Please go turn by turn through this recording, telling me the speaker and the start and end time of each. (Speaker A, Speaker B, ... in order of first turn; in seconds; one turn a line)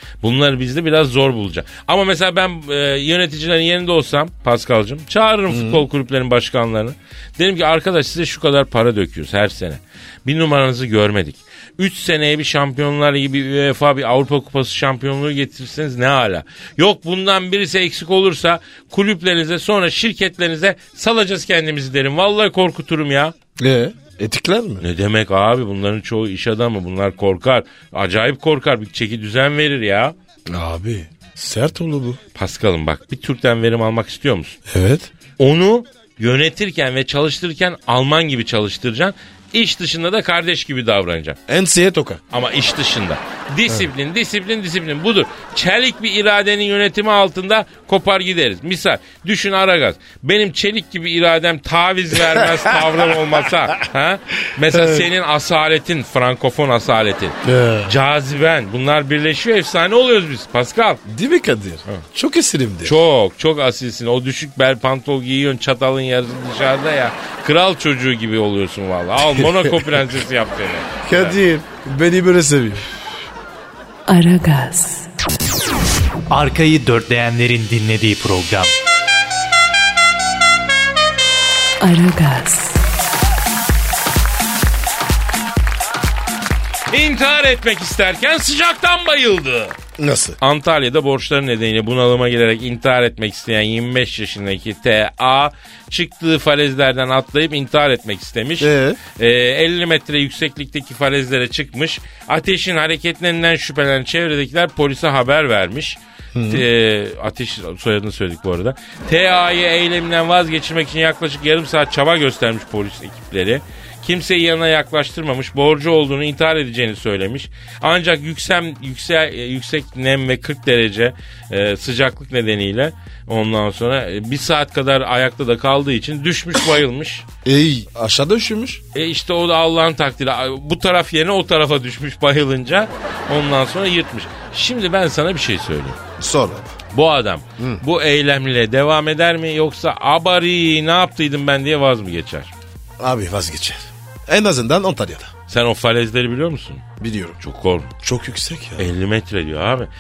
Speaker A: 0.2-23.3
Speaker B: 5.5-5.8
Speaker B: 23.6-24.9
Speaker A: 24.8-30.1
Speaker B: 30.5-32.2
Speaker A: 32.4-34.6
Speaker B: 34.7-35.1
Speaker A: 35.4-41.4
Speaker B: 41.5-42.2
Speaker A: 42.3-61.0
Speaker B: 52.3-53.3
Speaker B: 54.6-55.1
Speaker B: 57.4-58.0
Speaker B: 61.0-63.0
Speaker A: 62.8-71.4
Speaker B: 69.3-69.7
Speaker B: 71.0-73.0
Speaker C: 74.1-75.1
Speaker D: 76.3-78.7
Speaker C: 81.8-82.8
Speaker A: 86.9-89.8
Speaker B: 90.0-90.4
Speaker A: 90.4-127.2
Speaker B: 98.6-99.0
Speaker B: 106.3-106.7
Speaker B: 127.5-128.8
Speaker A: 128.9-136.0
Speaker B: 136.2-136.8
Speaker A: 136.9-142.5
Speaker B: 137.6-137.8
Speaker B: 143.0-145.3
Speaker A: 145.5-146.8
Speaker B: 147.0-147.4
Speaker A: 147.4-147.9
Speaker B: 148.0-148.9
Speaker A: 148.8-149.9